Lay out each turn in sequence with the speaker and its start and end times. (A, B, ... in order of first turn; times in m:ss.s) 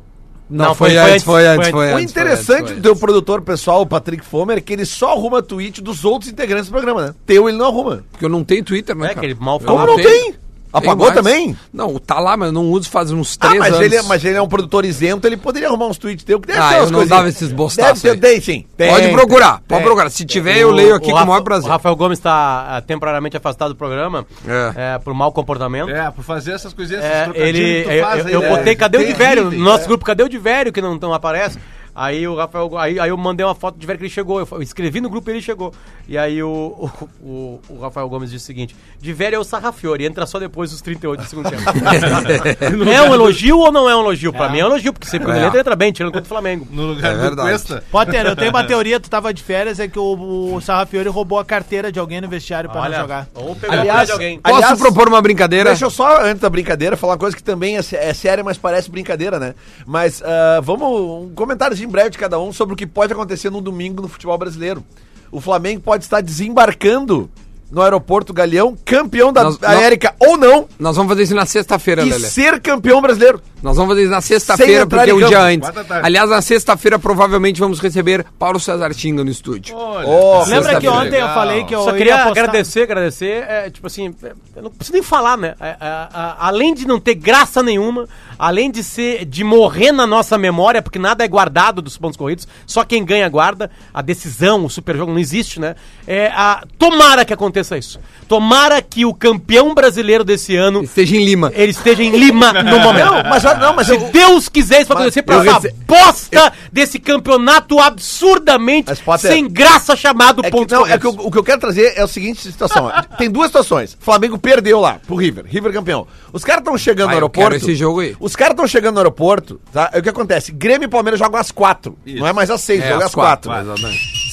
0:00.5-0:02.8 A
0:00.6-0:01.8 B
0:01.8-0:08.0 C
0:08.2-0:14.2 A
0:09.0-0:10.2 B
0:09.6-0:11.6 C
0:13.4-0:19.9 C
0:16.5-0:18.2 A
0:18.8-0:21.8 A
0:20.4-0:26.0 B
0:24.4-0:24.8 A
0:25.8-0:29.8 D
0:27.0-0:46.7 B
0:41.8-0:42.7 A
0:42.1-0:43.4 D
0:44.3-0:44.6 E
0:45.2-0:45.6 A
0:46.7-0:48.7 D
0:47.0-0:47.7 A
0:47.9-0:53.3 E
0:52.7-0:54.4 B
0:53.7-0:55.0 C
0:53.7-0:55.8 A
0:55.6-1:10.7 C
1:09.4-1:09.9 A
1:10.8-1:12.3 A
1:12.0-1:13.5 C
1:13.6-1:19.8 A
1:14.4-1:15.5 C
1:15.1-1:16.1 D
1:19.7-1:21.8 D
1:20.0-1:21.1 C
1:20.4-1:21.2 A
1:20.4-1:22.7 E
1:21.8-1:40.9 B
1:40.8-1:41.6 A
1:41.5-1:51.1 B
1:42.6-1:44.2 C
1:42.7-1:43.9 D
1:44.9-1:45.7 C
1:48.9-1:49.4 C
1:50.4-2:03.6 C
1:57.0-1:58.2 A
2:02.0-2:02.4 D
2:02.7-2:04.0 A